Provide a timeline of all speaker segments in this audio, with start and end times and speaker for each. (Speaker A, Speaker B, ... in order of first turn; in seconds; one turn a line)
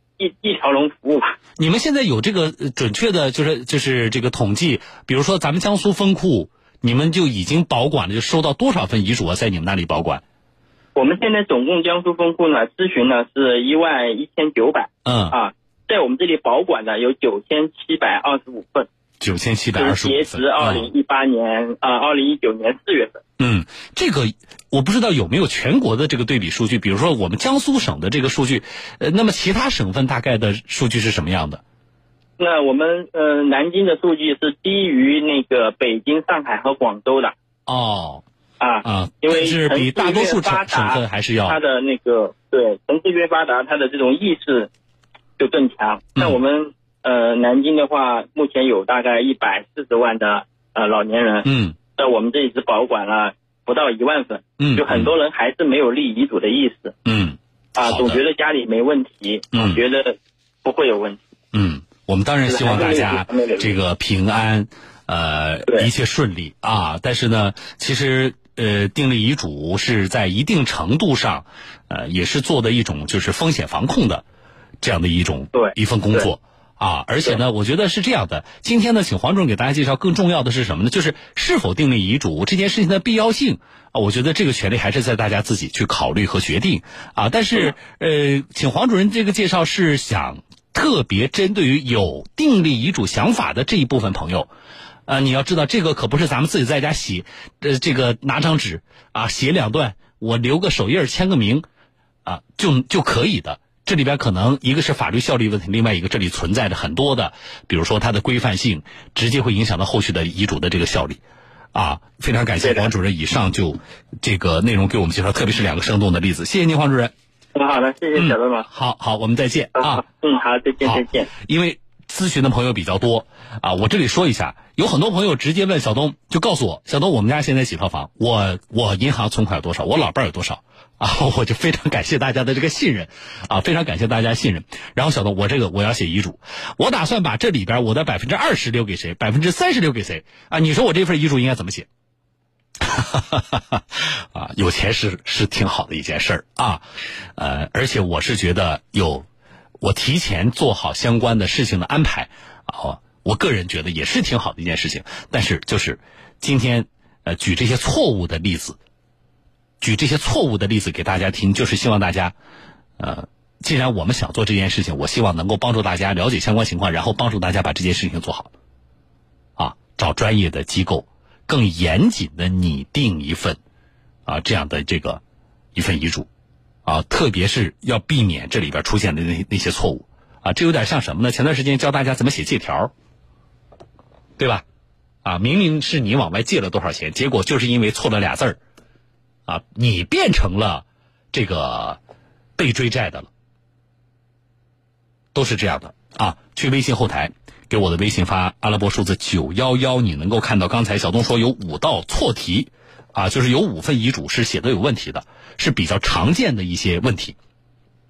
Speaker A: 0.2-1.4
Speaker B: 1.6-10.2
Speaker A: 10.9-18.9
Speaker B: 15.0-15.3
Speaker B: 19.2-20.9
Speaker A: 19.8-23.2
Speaker B: 23.4-31.6
Speaker A: 32.4-37.3
Speaker B: 37.7-38.2
Speaker A: 38.6-44.7
Speaker B: 38.8-41.6
Speaker A: 45.4-56.9
Speaker B: 51.4-51.8
Speaker B: 54.6-55.1
Speaker B: 57.0-58.2
Speaker A: 57.8-61.2
Speaker B: 59.5-59.8
Speaker B: 61.5-74.2
Speaker A: 62.5-63.7
Speaker B: 74.8-94.5
Speaker A: 75.5-76.3
Speaker B: 95.1-101.7
Speaker B: 102.2-111.2
Speaker B: 111.7-117.1
Speaker A: 112.6-112.9
Speaker A: 117.5-118.7
Speaker B: 118.2-120.0
Speaker A: 119.7-121.3
Speaker B: 120.8-141.9
Speaker B: 142.8-146.8
Speaker B: 147.4-149.2
Speaker B: 149.8-158.8
Speaker B: 159.8-162.3
Speaker B: 163.0-168.5
Speaker B: 169.6-173.6
Speaker B: 174.2-175.2
Speaker B: 175.7-176.3
Speaker B: 176.8-182.9
Speaker B: 184.4-184.6
Speaker B: 185.2-188.6
Speaker B: 189.5-192.0
Speaker B: 192.6-193.3
Speaker B: 195.3-207.4